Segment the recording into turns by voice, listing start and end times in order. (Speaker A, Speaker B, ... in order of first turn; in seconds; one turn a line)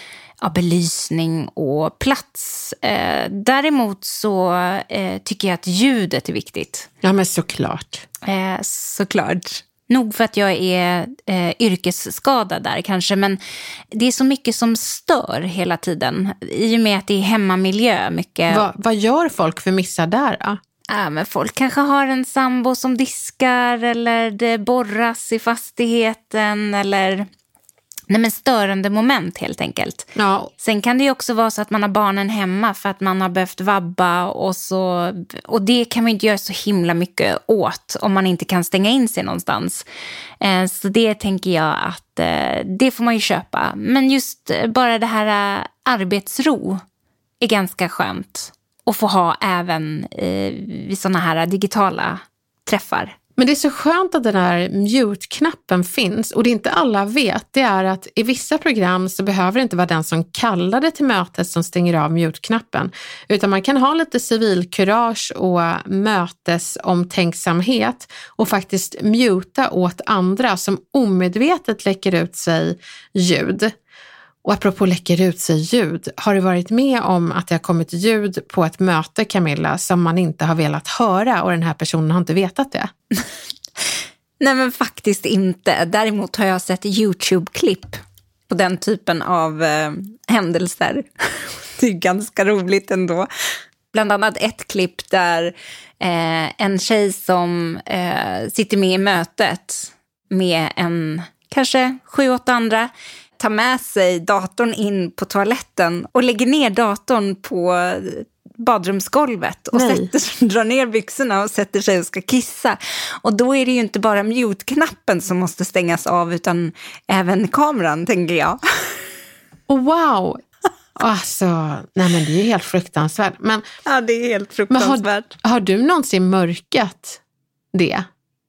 Speaker A: 0.4-6.9
Speaker B: 7.0-8.0
Speaker A: 8.2-13.4
Speaker A: 13.9-18.6
Speaker B: 18.5-20.6
Speaker A: 20.9-27.3
Speaker A: 28.1-30.1
Speaker B: 30.1-30.5
Speaker A: 30.6-39.8
Speaker A: 40.4-46.8
Speaker A: 47.4-53.1
Speaker B: 53.4-73.7
Speaker B: 74.4-82.9
Speaker A: 84.4-93.3
Speaker A: 93.9-118.6
Speaker B: 109.7-110.1
Speaker B: 119.7-120.4
Speaker B: 121.0-123.7
Speaker A: 123.8-125.3
Speaker B: 124.7-127.2
Speaker B: 127.7-128.1